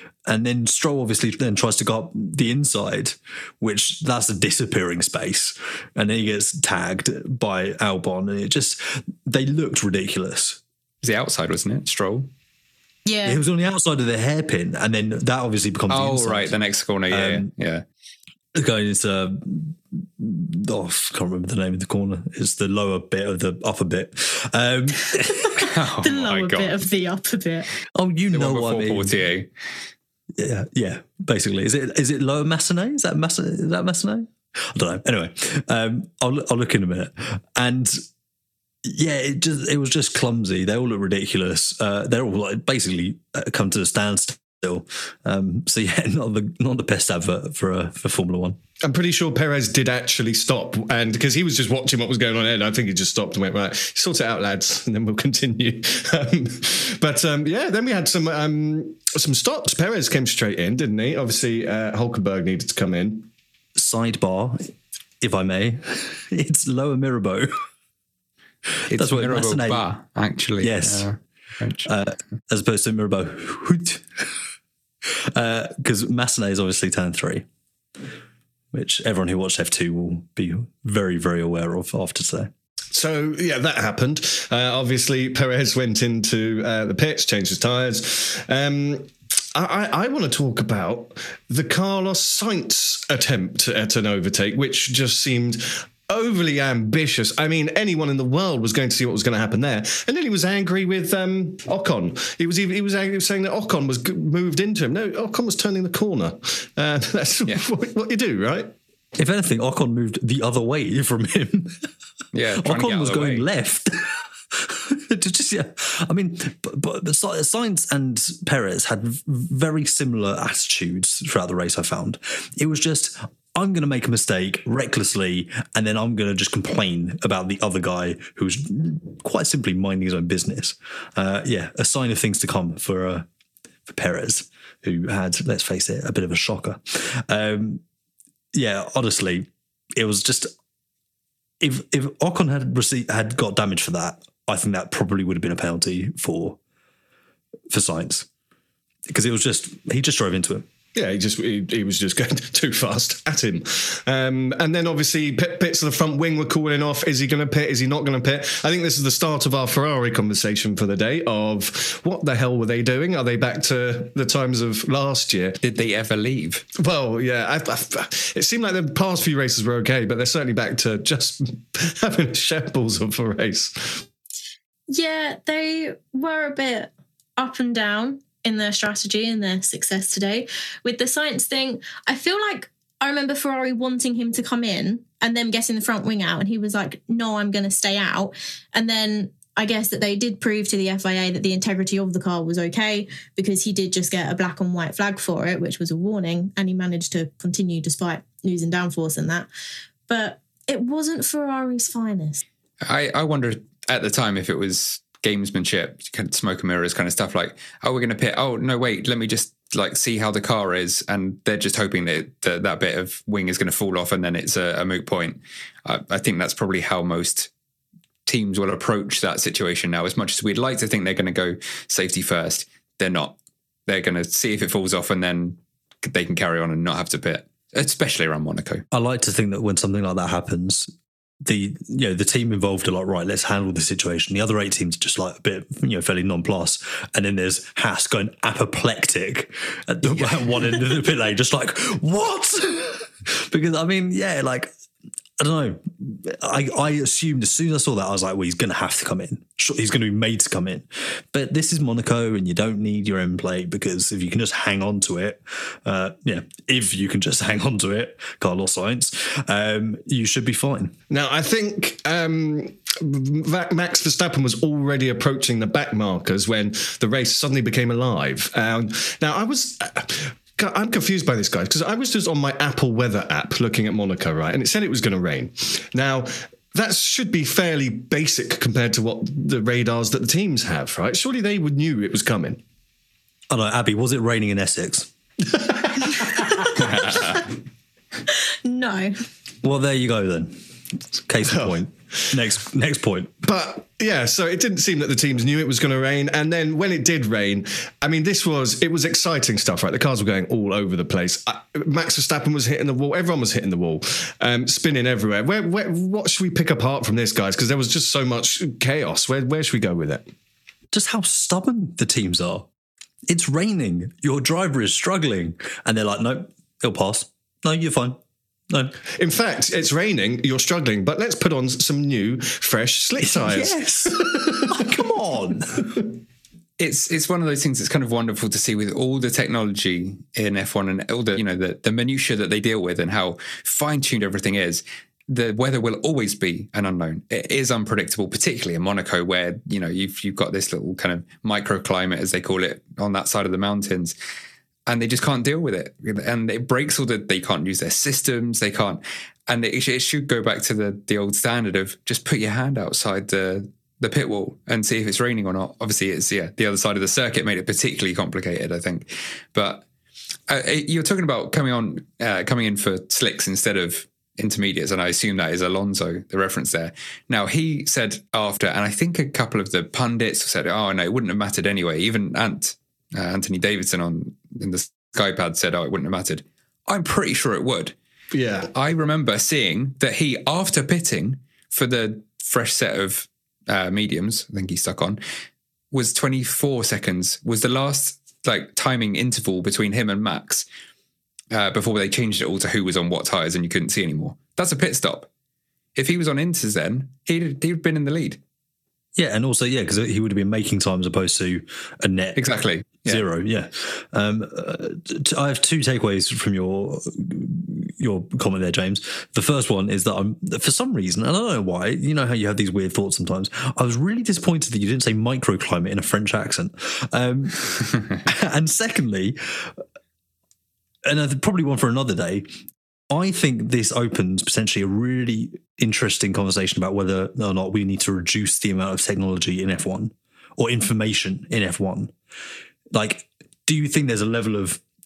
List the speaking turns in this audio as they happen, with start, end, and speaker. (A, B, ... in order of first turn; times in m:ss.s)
0:00.3-0:10.6 A
0:11.0-0:12.3 B
0:13.1-0:13.4 C
0:13.2-0:16.6 A
0:15.9-0:17.8 B
0:17.1-0:17.5 A
0:18.6-0:25.5 A
0:25.6-0:26.8 B
0:26.0-0:27.7 C
0:28.0-0:29.2 A
0:28.3-0:29.5 B
0:30.4-0:38.0 A
0:38.8-0:48.6 A
0:48.8-1:03.3 D
1:03.8-1:07.5 A
1:08.9-1:09.9 A
1:08.9-1:11.9 B
1:10.6-1:11.1 A
1:11.9-1:14.4 A
1:15.0-1:17.5 A
1:18.7-1:22.5 A
1:22.9-1:48.7 D
1:49.2-1:51.9 A
1:52.3-1:53.4 B
1:52.6-2:13.3 A
2:13.9-2:17.8 A
2:18.5-2:20.5 A
2:21.6-2:26.6 A
2:27.7-2:28.3 A
2:29.1-2:30.6 A
2:31.0-2:45.6 D
2:45.6-2:46.6 B
2:46.8-2:54.0 D
2:54.9-3:19.5 C
3:20.1-3:22.4 C
3:22.8-3:37.5 B
3:38.3-3:48.8 B
3:48.9-3:50.9 A
3:51.4-4:04.7 A
4:05.4-4:21.0 A
4:21.1-4:42.6 D
4:43.5-4:45.1 A
4:45.5-4:46.4 D
4:48.6-4:49.2 C
4:49.6-4:50.6 A
4:51.1-4:53.4 A
4:51.5-4:52.4 D
4:53.4-5:10.3 D
5:10.9-5:12.7 A
5:13.3-5:18.2 A
5:18.7-5:19.0 A
5:19.2-5:25.0 D
5:23.2-5:26.0 A
5:26.8-5:44.2 B
5:44.9-5:59.8 B
6:00.5-6:18.0 B
6:18.3-6:18.7 D
6:18.7-6:25.2 B
6:25.9-6:30.7 B
6:31.5-6:35.3 B
6:36.0-6:38.4 B
6:39.2-6:42.4 A
6:42.4-6:43.2 B
6:43.0-6:59.8 A
7:01.0-7:02.5 A
7:03.1-7:12.1 A
7:12.9-7:14.8 A